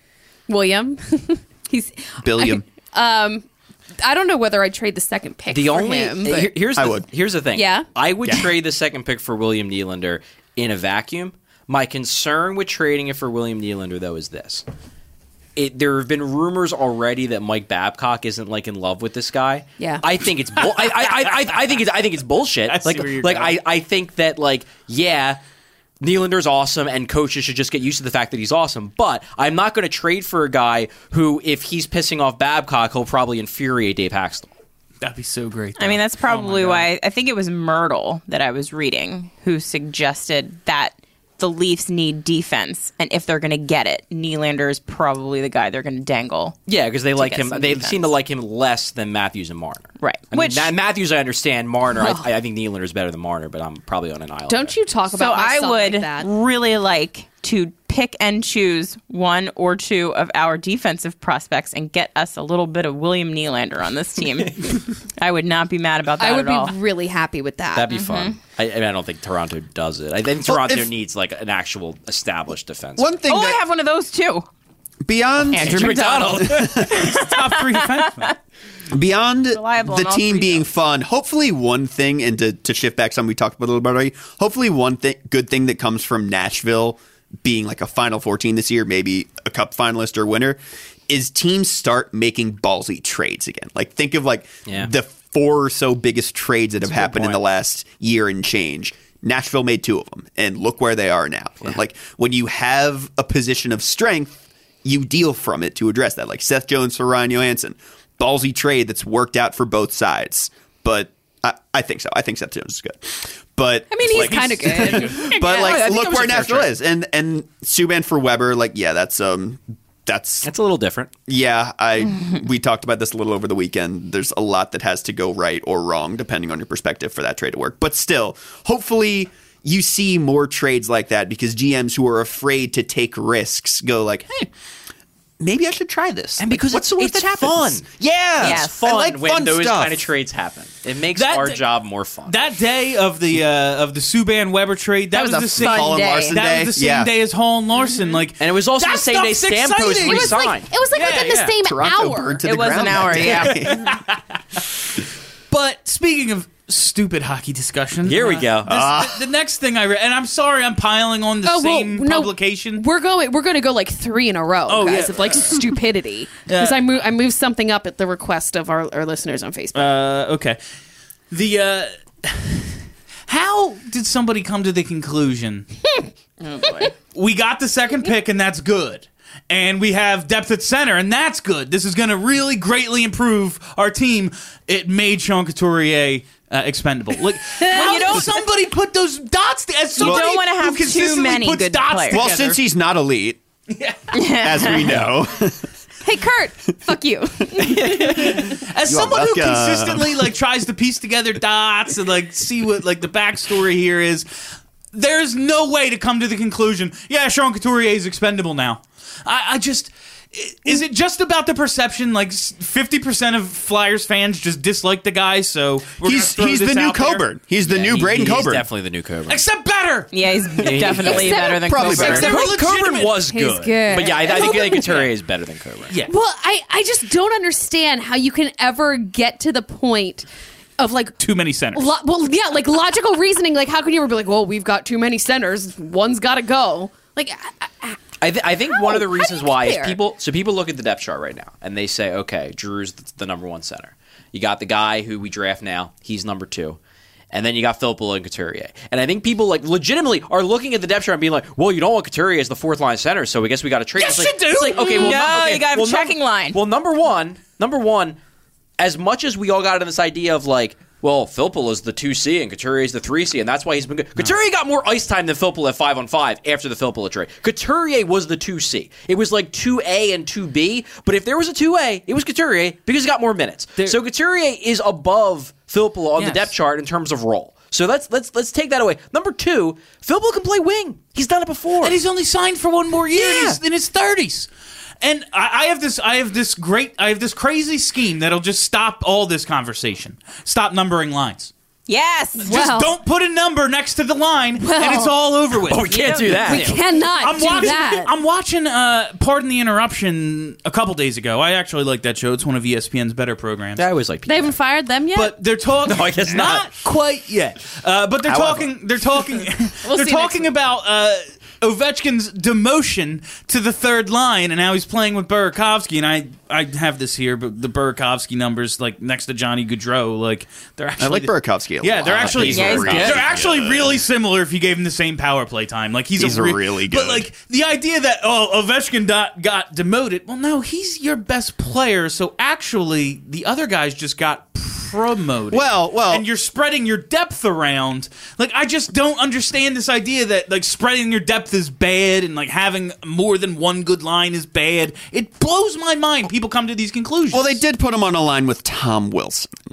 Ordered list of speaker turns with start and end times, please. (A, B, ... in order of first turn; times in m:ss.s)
0:00.5-0:03.4 A
0:02.2-0:02.6 B
0:04.0-0:06.5 A
0:05.5-0:14.6 C
0:06.7-0:07.1 B
0:07.5-0:07.8 A
0:08.2-0:08.5 B
0:15.6-0:25.4 C
0:19.8-0:20.0 A
0:22.6-0:23.6 D
0:26.0-0:34.5 C
0:35.0-0:36.9 D
0:35.8-0:46.6 E
0:46.7-0:54.7 C
0:47.1-0:48.1 E
0:50.0-0:50.7 E
0:52.0-0:52.3 A
0:54.5-0:56.3 A
0:55.1-1:06.7 E
1:06.2-1:07.9 A
1:07.7-1:13.2 C
1:07.9-1:08.4 E
1:10.4-1:10.9 B
1:13.0-1:13.6 B
1:13.2-1:14.5 E
1:15.0-1:17.1 B
1:15.5-1:16.9 C
1:15.5-1:18.3 E
1:15.7-1:18.3 D
1:18.9-1:30.6 B
1:19.5-1:20.6 E
1:31.1-2:00.5 B
1:36.8-1:37.4 C
1:53.9-1:55.7 A
1:54.1-1:55.3 D
1:55.3-1:56.7 C
2:00.4-2:01.1 C
2:01.3-2:14.5 B
2:15.4-2:20.1 B
2:16.4-2:17.8 C
2:18.4-2:18.8 E
2:18.4-2:22.4 C
2:21.1-2:21.6 D
2:22.3-2:31.6 D
2:25.1-2:27.1 B
2:25.6-2:26.3 E
2:28.4-2:30.7 C
2:30.0-2:32.4 A
2:31.6-2:34.0 B
2:32.4-2:33.9 E
2:33.3-2:34.0 D
2:35.5-2:42.8 D
2:38.0-2:38.7 C
2:38.7-2:39.2 B
2:41.4-2:49.9 A
2:44.7-2:45.6 D
2:46.5-2:46.8 D
2:49.7-2:50.6 D
2:51.3-2:52.8 D
2:53.3-2:55.7 D
2:56.4-2:56.9 E
2:57.1-3:12.6 D
3:07.6-3:08.4 E
3:10.0-3:12.3 E
3:12.1-3:13.4 B
3:13.7-3:14.2 D
3:14.1-3:14.9 E
3:14.3-3:15.6 B
3:16.0-3:18.2 A
3:17.6-3:24.2 D
3:17.7-3:20.3 B
3:24.9-3:37.3 D
3:36.0-3:38.6 B
3:37.6-3:39.4 C
3:39.3-3:40.6 D
3:40.1-3:42.3 E
3:40.6-3:45.9 C
3:41.0-3:45.1 A
3:41.5-3:42.4 B
3:42.0-3:43.2 D
3:46.1-3:50.2 A
3:50.8-3:51.1 A
3:51.2-3:51.9 D
3:51.7-3:58.0 A
3:58.2-4:06.8 C
3:58.6-4:00.0 A
4:07.3-4:18.2 C
4:14.0-4:15.4 D
4:14.0-4:16.6 E
4:18.8-4:42.0 C
4:36.2-4:36.5 D
4:41.8-4:44.5 D
4:43.2-4:43.6 C
4:45.0-4:51.5 D
4:51.9-4:52.5 E
4:52.4-4:52.9 A
4:52.4-4:56.7 D
4:54.6-4:55.1 A
4:55.7-4:56.8 C
4:55.9-4:56.6 E
4:56.4-4:58.1 A
4:57.2-5:03.8 D
4:57.4-4:57.8 C
5:03.8-5:04.5 C
5:04.2-5:05.3 A
5:05.1-5:47.6 D
5:05.9-5:06.7 C
5:08.2-5:08.7 B
5:09.8-5:10.5 E
5:21.0-5:24.0 B
5:22.1-5:23.4 C
5:22.4-5:23.2 E
5:26.2-5:27.2 B
5:35.5-5:36.2 B
5:47.3-5:49.5 B